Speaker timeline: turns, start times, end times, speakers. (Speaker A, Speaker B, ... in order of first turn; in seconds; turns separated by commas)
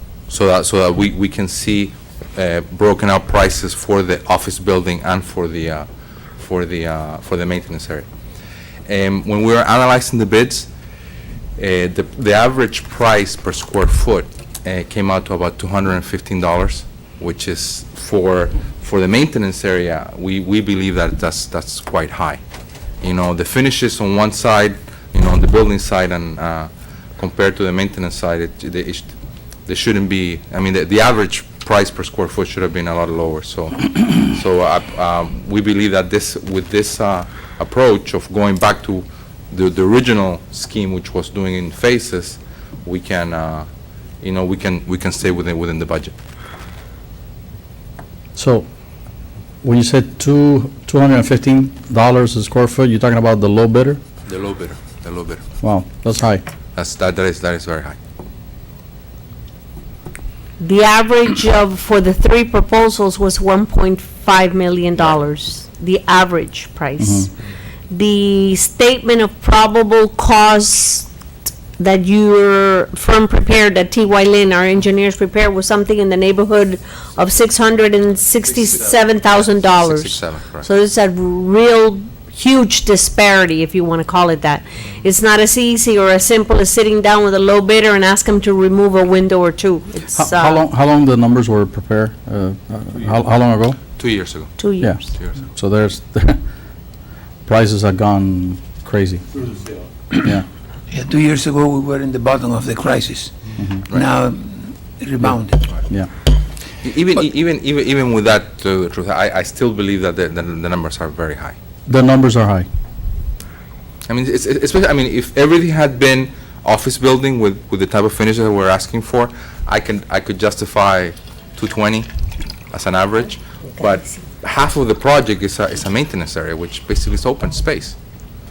Speaker A: 0.3-5.9, Speaker A: 6.4-8.1, Speaker A: 8.9-10.7, Speaker A: 11.6-22.4, Speaker A: 23.0-29.1, Speaker A: 29.7-43.7, Speaker A: 44.2-46.1, Speaker B: 48.3-48.6, Speaker B: 49.6-54.0, Speaker A: 54.3-55.4, Speaker B: 55.6-56.4, Speaker A: 56.7-58.0, Speaker C: 60.6-67.3, Speaker B: 67.0-67.3, Speaker C: 67.9-71.1, Speaker C: 71.8-90.6, Speaker A: 78.7-80.7, Speaker B: 90.1-93.8, Speaker A: 94.0-94.5, Speaker C: 94.6-95.0, Speaker B: 94.8-96.4, Speaker B: 97.5-99.2, Speaker D: 100.9-105.6, Speaker B: 103.6-103.8, Speaker B: 105.2-106.1, Speaker A: 106.8-111.5, Speaker B: 111.9-112.7, Speaker A: 114.1-122.1, Speaker A: 122.7-128.0